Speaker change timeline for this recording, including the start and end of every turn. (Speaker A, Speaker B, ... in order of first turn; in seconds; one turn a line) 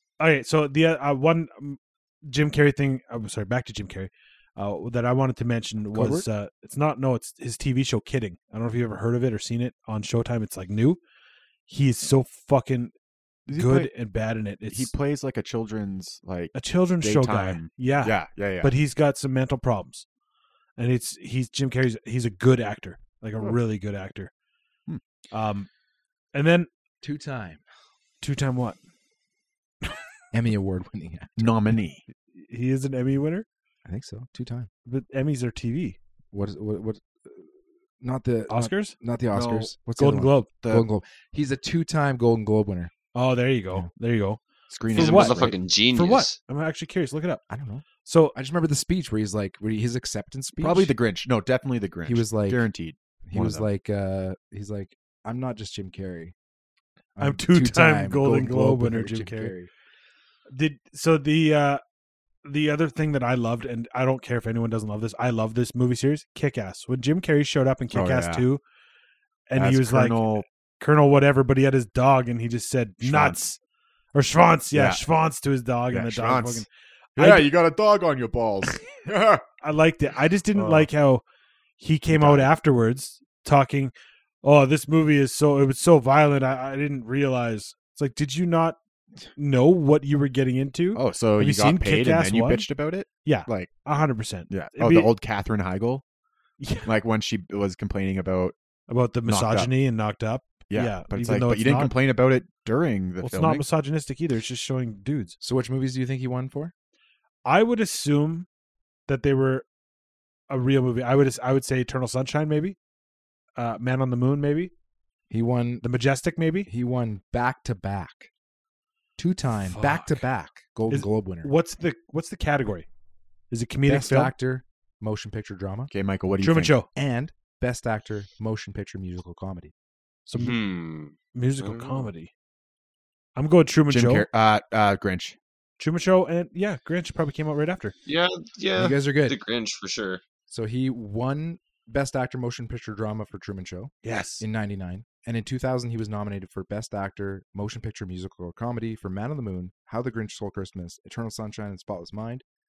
Speaker A: 0.2-11.0
Speaker B: 5.9-6.3
Speaker A: 11.7-12.9
Speaker C: 13.4-13.9
Speaker A: 13.5-14.9
Speaker C: 14.7-18.7
Speaker A: 16.5-20.1
Speaker A: 20.8-24.3
Speaker A: 25.3-25.7
Speaker A: 26.3-26.7
Speaker B: 27.0-27.6
Speaker A: 28.2-28.8
Speaker B: 30.3-31.6
Speaker C: 31.4-32.0
Speaker A: 32.3-33.5
Speaker B: 33.8-34.7
Speaker A: 34.9-36.0
Speaker B: 36.3-37.5
Speaker B: 38.0-42.9
Speaker A: 38.5-40.5
Speaker C: 40.6-40.9
Speaker A: 43.1-44.4
Speaker C: 44.7-45.5
Speaker A: 44.9-47.4
Speaker D: 44.9-46.4
Speaker B: 47.5-51.0
Speaker A: 48.0-48.3
Speaker C: 50.6-53.7
Speaker B: 52.0-52.7
Speaker B: 53.3-56.3
Speaker B: 57.1-59.7
Speaker A: 57.2-59.5
Speaker A: 60.5-61.8
Speaker A: 62.4-68.6
Speaker C: 67.9-68.5
Speaker A: 69.5-73.6
Speaker C: 69.5-70.4
Speaker C: 73.0-73.4
Speaker A: 74.1-76.7
Speaker C: 74.7-75.1
Speaker C: 75.9-76.7
Speaker C: 77.2-79.4
Speaker A: 77.2-77.5
Speaker A: 79.6-81.2
Speaker C: 80.5-80.9
Speaker A: 81.8-83.9
Speaker C: 82.1-82.5
Speaker A: 84.4-88.8
Speaker A: 89.3-95.1
Speaker C: 90.9-93.8
Speaker C: 94.5-96.0
Speaker A: 96.6-96.9
Speaker C: 96.8-98.5
Speaker A: 98.9-102.0
Speaker C: 99.2-99.7
Speaker C: 100.7-103.7
Speaker A: 103.2-105.3
Speaker B: 105.4-106.7
Speaker A: 107.4-108.5
Speaker A: 109.1-109.6
Speaker A: 110.5-112.8
Speaker A: 113.5-114.7
Speaker B: 115.3-115.8
Speaker A: 115.8-116.7
Speaker B: 116.7-118.3
Speaker B: 119.2-121.5
Speaker A: 119.5-120.2
Speaker A: 120.9-122.9
Speaker A: 123.5-124.3
Speaker B: 123.8-125.9
Speaker C: 125.9-126.8
Speaker A: 126.4-126.9
Speaker B: 126.9-129.7
Speaker A: 130.3-130.6
Speaker D: 130.4-132.1
Speaker A: 131.3-132.3
Speaker A: 133.3-134.3
Speaker C: 133.9-135.3
Speaker A: 135.8-137.9
Speaker D: 138.1-140.2
Speaker B: 138.8-139.4
Speaker B: 140.5-152.4
Speaker A: 144.0-144.4